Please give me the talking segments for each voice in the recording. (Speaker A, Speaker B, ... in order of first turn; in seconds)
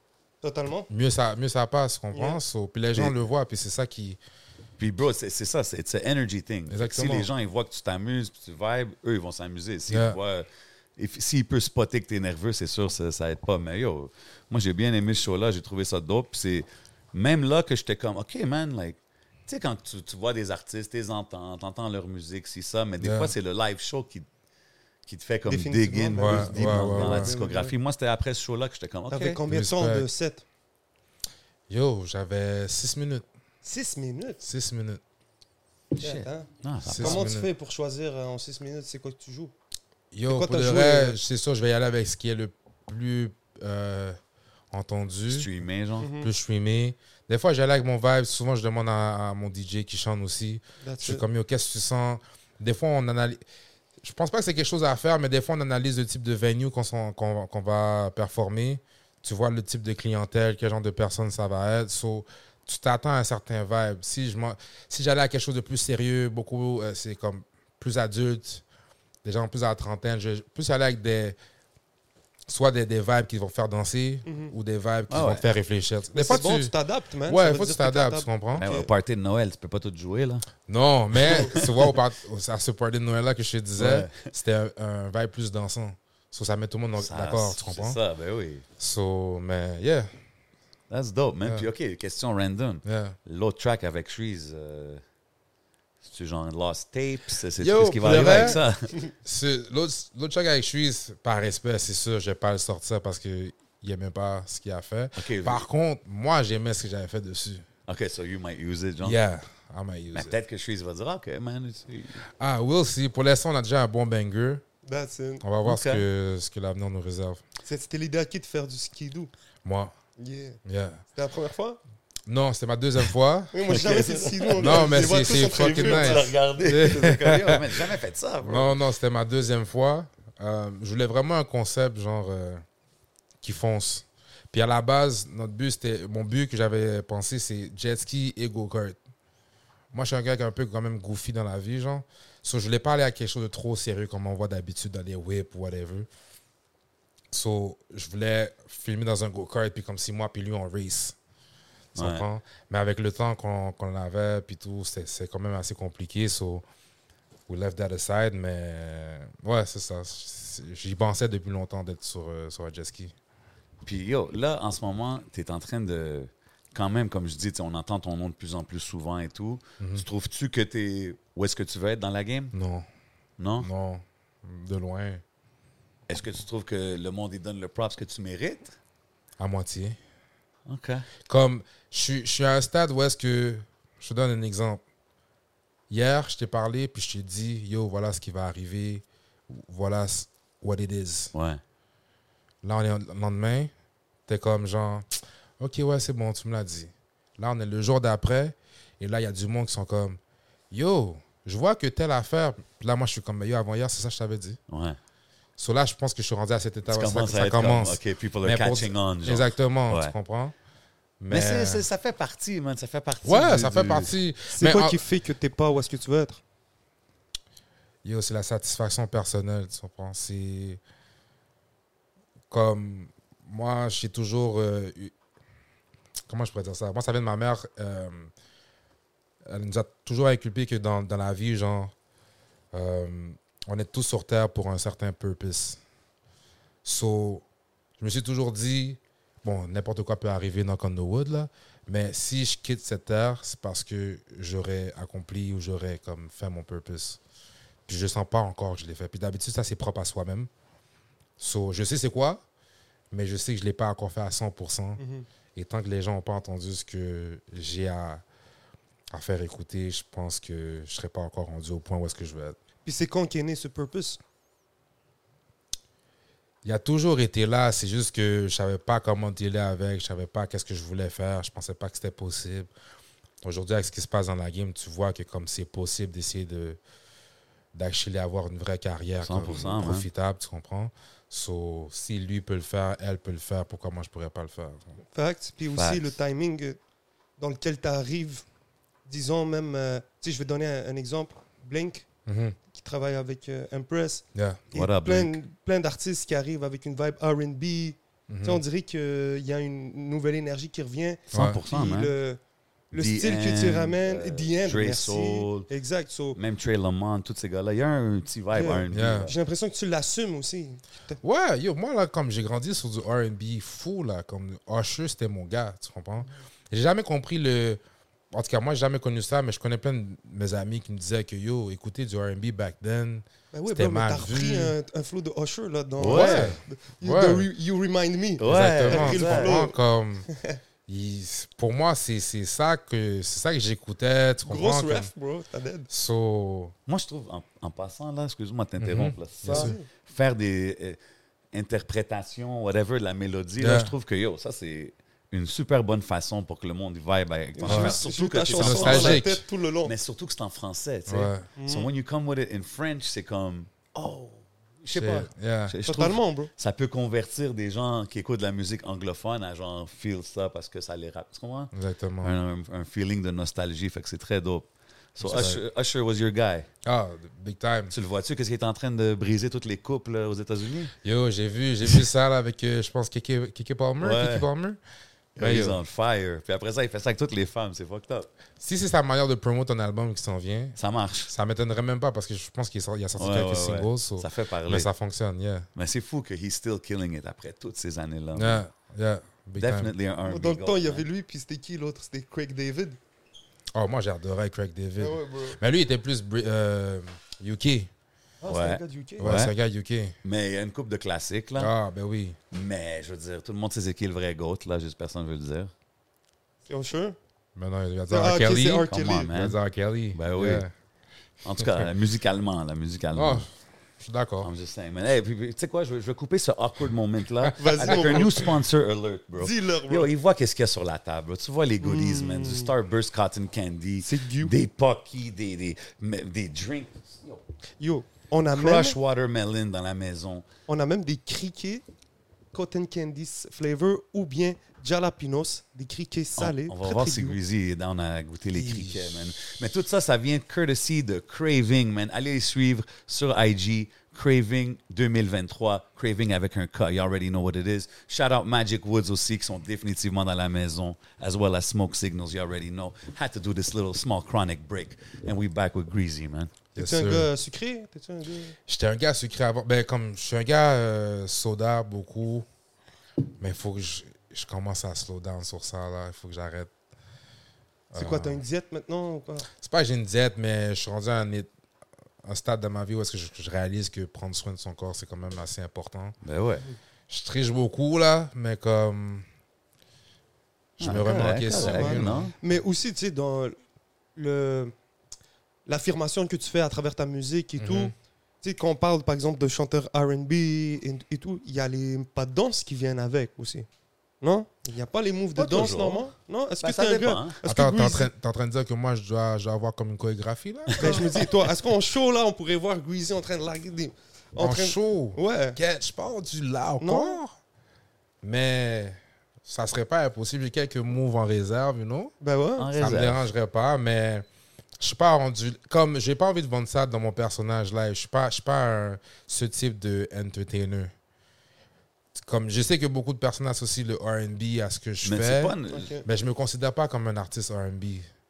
Speaker A: 0.4-0.9, 2.1-2.4, 25.5-27.7, 29.1-30.4, 33.6-34.4, 36.0-39.5, 40.3-41.2, 46.0-46.3, 50.8-51.2, 74.2-74.5, 76.1-78.9, 98.1-98.6, 114.8-115.4, 117.6-119.3, 120.2-120.6, 121.1-121.8, 123.5-126.4, 214.5-216.4, 255.0-255.2, 262.8-264.2, 285.1-286.8, 287.4-288.4, 289.1-292.1, 292.7-302.4, 302.9-306.4, 308.5-311.2, 323.5-329.8, 330.3-330.6, 334.5-335.9, 339.4-339.9, 347.6-349.9, 351.6-351.9, 355.9-356.5, 390.2-393.0, 395.0-395.6, 398.4-399.3, 406.7-407.1, 408.1-409.3, 417.6-418.6, 419.4-420.1, 421.8-422.7, 424.0-424.5, 427.8-429.0, 430.7-431.8, 432.5-437.4, 456.8-458.6, 467.9-469.5, 481.5-483.6, 484.1-484.7, 485.6-493.6, 494.2-498.1, 500.8-505.6, 506.8-507.2, 512.2-512.7, 525.7-526.0
Speaker B: 0.9-4.2, 6.7-7.3, 9.9-10.2, 23.0-23.3, 26.2-27.3, 29.5-30.1, 31.7-33.2, 34.4-35.0, 36.9-37.5, 40.1-44.2, 44.7-45.5, 46.2-53.4, 54.0-68.6, 69.2-71.3, 72.5-76.7, 77.3-78.7, 80.7-88.0, 88.8-90.1, 92.8-93.2, 97.6-98.6, 99.2-107.6, 109.0-110.3, 112.4-114.6, 115.4-117.4, 119.6-119.9, 120.6-121.0, 122.3-123.6, 124.6-127.8, 128.4-132.6, 133.4-139.0, 139.9-146.1, 147.3-151.2, 151.9-156.6, 157.5-163.1, 169.8-170.0, 172.5-172.8, 173.6-175.2, 179.4-180.0, 181.2-184.8, 185.9-191.3, 192.6-193.7, 194.3-195.1, 195.6-200.2, 200.7-204.6, 205.6-210.5, 211.2-211.8, 213.2-215.0, 218.0-220.8, 222.5-225.1, 226.3-228.3, 229.4-231.9, 232.7-235.8, 236.8-237.4, 238.0-247.2, 247.9-250.5, 251.4-252.4, 253.1-255.0, 255.6-258.2, 259.1-262.6, 266.6-272.7, 273.4-276.8, 277.7-284.9, 292.3-292.6, 294.3-294.6, 298.3-298.6, 301.3-301.6, 308.9-309.3, 311.2-317.8, 318.3-324.7, 326.1-327.5, 328.4-330.3, 330.9-335.1, 335.9-336.7, 338.8-339.7, 343.6-343.9, 347.7-348.0, 348.5-349.4, 351.1-351.5, 354.9-355.7, 361.7-362.3, 365.2-365.6, 366.8-367.9, 371.0-374.8, 375.4-375.8, 378.6-380.8, 381.3-385.7, 388.3-389.9, 393.7-397.9, 399.2-400.2, 401.6-402.4, 407.6-410.7, 411.6-411.9, 413.1-413.5, 414.0-414.5, 417.4-418.2, 438.6-439.1, 456.8-457.3, 458.7-462.5, 463.4-466.7, 467.9-468.4, 469.6-471.5, 472.2-476.2, 477.1-479.2, 480.8-482.3, 487.6-487.9, 497.4-501.1, 504.4-507.3, 508.2-512.1, 512.7-514.2, 514.8-520.9, 522.1-528.1
Speaker C: 4.8-24.3, 25.1-29.4, 36.0-37.3, 45.3-46.1, 75.1-75.5, 78.6-80.5, 81.2-81.8, 83.8-84.3, 87.0-88.6, 90.9-95.0, 96.0-99.0, 105.2-105.6, 107.9-109.2, 110.1-112.2, 115.6-116.0, 123.7-128.8, 151.9-152.2, 163.8-172.5, 173.4-173.7, 176.1-178.8, 180.7-181.1, 191.3-191.6, 204.7-205.0, 206.9-210.1, 211.3-214.1, 279.2-280.1, 285.7-286.1, 294.7-295.4, 301.3-302.1, 302.9-305.7, 306.3-309.4, 326.0-326.5, 328.4-329.6, 336.9-341.0, 341.5-366.7, 367.9-370.9, 374.0-374.4, 375.4-378.3, 380.8-381.3, 383.2-384.9, 385.8-388.6, 389.6-391.0, 398.4-399.5, 400.2-401.7, 402.5-405.7, 408.9-409.6, 410.1-410.6, 411.4-413.4, 414.4-427.4, 428.5-430.4, 436.4-456.5, 476.2-476.6, 480.8-482.3, 495.4-496.1, 496.6-497.4, 500.7-501.1, 512.6-513.2, 525.0-525.9